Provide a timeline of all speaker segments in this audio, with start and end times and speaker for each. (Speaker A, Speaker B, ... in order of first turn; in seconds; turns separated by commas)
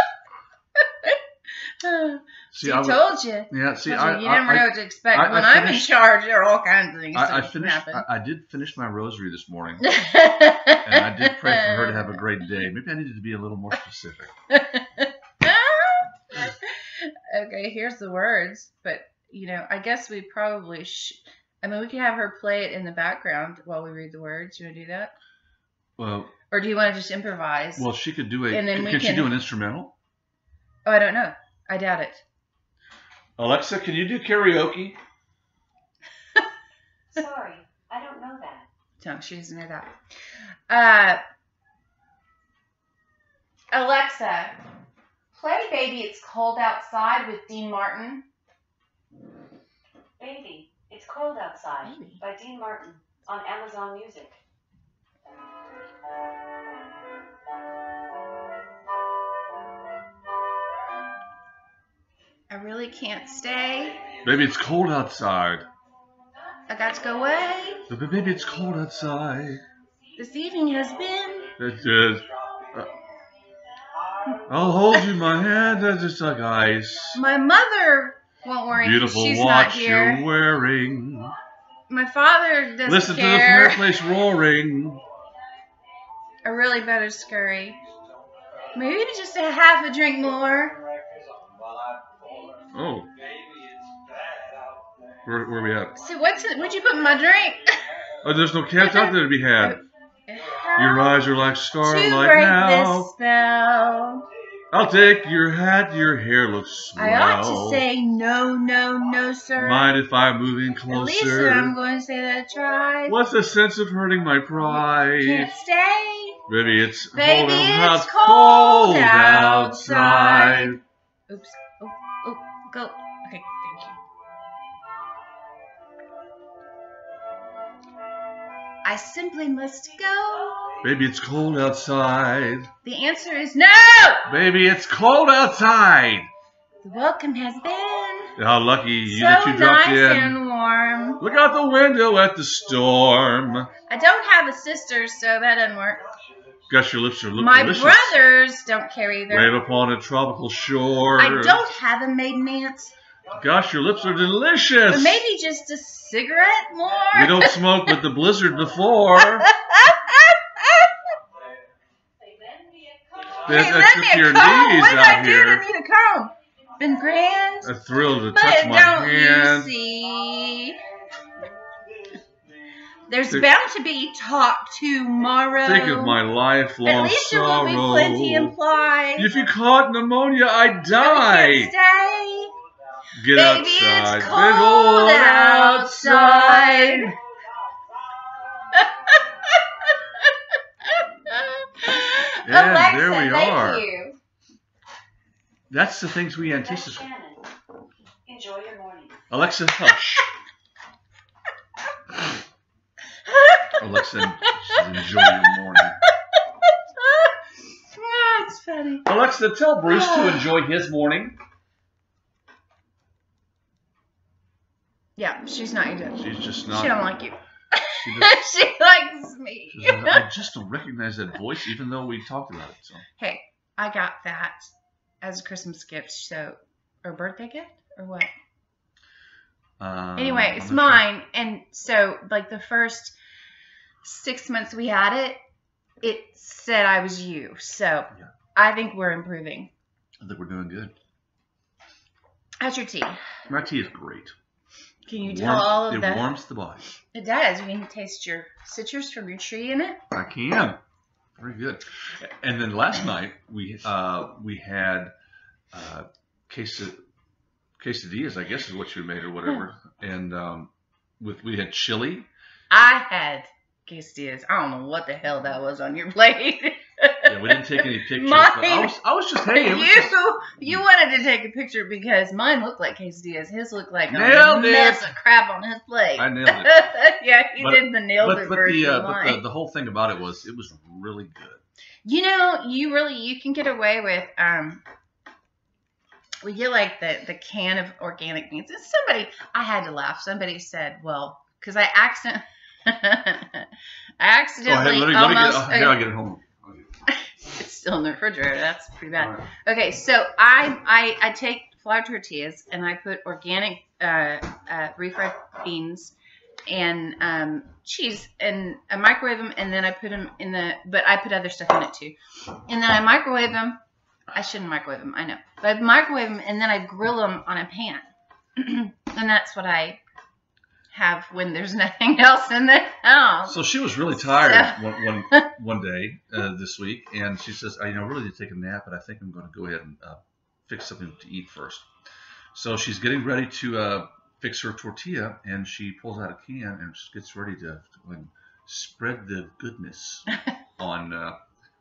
Speaker A: 0.8-8.1, Speaker B: 2.5-6.0, Speaker B: 7.1-9.9, Speaker A: 9.8-12.1, Speaker B: 10.8-14.3, Speaker A: 14.5-25.1, Speaker B: 26.0-26.3, Speaker A: 26.5-27.9, Speaker B: 27.8-29.9, Speaker A: 28.5-29.3, Speaker A: 30.8-32.2, Speaker B: 33.4-35.0, Speaker C: 37.1-38.7, Speaker A: 39.0-40.0, Speaker A: 40.7-41.2, Speaker A: 43.7-44.6, Speaker A: 45.3-48.2, Speaker C: 50.2-54.4, Speaker A: 51.8-52.2, Speaker A: 62.5-64.1, Speaker B: 64.2-65.7, Speaker A: 66.7-67.9, Speaker B: 67.9-69.6, Speaker A: 70.2-71.6, Speaker B: 71.6-73.0, Speaker B: 74.5-77.2, Speaker A: 77.1-80.3, Speaker B: 78.7-81.3, Speaker A: 81.9-83.9, Speaker B: 82.8-85.0, Speaker A: 86.4-87.8, Speaker A: 88.7-90.8, Speaker B: 92.7-93.2, Speaker B: 95.2-96.0, Speaker A: 96.0-97.9, Speaker B: 98.2-99.8, Speaker A: 98.8-101.2, Speaker B: 100.8-103.1, Speaker A: 101.8-104.3, Speaker B: 104.7-107.8, Speaker A: 107.0-110.0, Speaker B: 109.6-111.8, Speaker A: 110.9-113.2, Speaker B: 113.1-115.5, Speaker A: 114.6-116.4, Speaker B: 116.5-120.8, Speaker A: 117.1-124.0, Speaker A: 128.8-130.7, Speaker B: 130.8-132.7, Speaker A: 132.8-134.3, Speaker B: 134.2-136.3, Speaker A: 136.8-138.4, Speaker B: 138.4-140.4, Speaker A: 139.1-141.2, Speaker B: 141.2-143.7, Speaker A: 143.9-146.1, Speaker B: 146.7-148.2, Speaker A: 147.4-149.5, Speaker B: 149.3-151.6, Speaker A: 151.2-152.9, Speaker B: 153.3-155.2, Speaker A: 154.9-157.9, Speaker B: 157.1-159.5, Speaker A: 159.2-161.2, Speaker A: 163.3-170.8, Speaker B: 163.4-165.7, Speaker B: 167.6-169.7, Speaker A: 173.1-176.2, Speaker B: 175.6-178.5, Speaker A: 176.8-179.3, Speaker B: 179.2-181.7, Speaker A: 180.9-182.5, Speaker B: 183.1-187.2, Speaker A: 183.3-187.2, Speaker A: 188.7-194.2, Speaker B: 192.4-193.9, Speaker B: 195.7-197.0, Speaker C: 196.6-197.5, Speaker C: 198.3-199.2, Speaker B: 199.3-200.3, Speaker A: 203.3-206.1, Speaker B: 203.8-206.0, Speaker A: 206.6-207.3, Speaker A: 207.9-209.1, Speaker B: 209.0-211.4, Speaker A: 209.8-210.5, Speaker A: 215.2-220.3, Speaker B: 216.2-217.2, Speaker B: 217.9-218.4, Speaker B: 219.7-223.0, Speaker A: 223.2-224.7, Speaker A: 225.2-228.3, Speaker B: 229.8-231.0, Speaker A: 230.2-233.2, Speaker A: 234.0-235.4, Speaker A: 236.0-239.7, Speaker B: 240.2-240.9, Speaker A: 242.6-243.2, Speaker B: 243.5-244.3, Speaker A: 245.1-246.3, Speaker B: 245.2-246.8, Speaker A: 247.1-250.0, Speaker B: 250.1-250.8, Speaker B: 251.4-255.1, Speaker B: 255.7-257.0, Speaker B: 257.8-262.3, Speaker A: 262.7-268.9, Speaker B: 267.2-270.8, Speaker A: 269.5-279.4, Speaker B: 274.1-275.1, Speaker B: 276.2-276.8, Speaker B: 277.6-281.6, Speaker A: 282.1-284.8, Speaker A: 286.4-296.0, Speaker B: 294.6-296.9, Speaker A: 297.1-306.1, Speaker B: 299.2-299.4, Speaker A: 306.7-312.2, Speaker A: 312.7-313.8, Speaker A: 314.3-320.0, Speaker A: 320.9-325.5, Speaker B: 323.5-331.9, Speaker B: 332.5-340.3, Speaker B: 340.8-341.4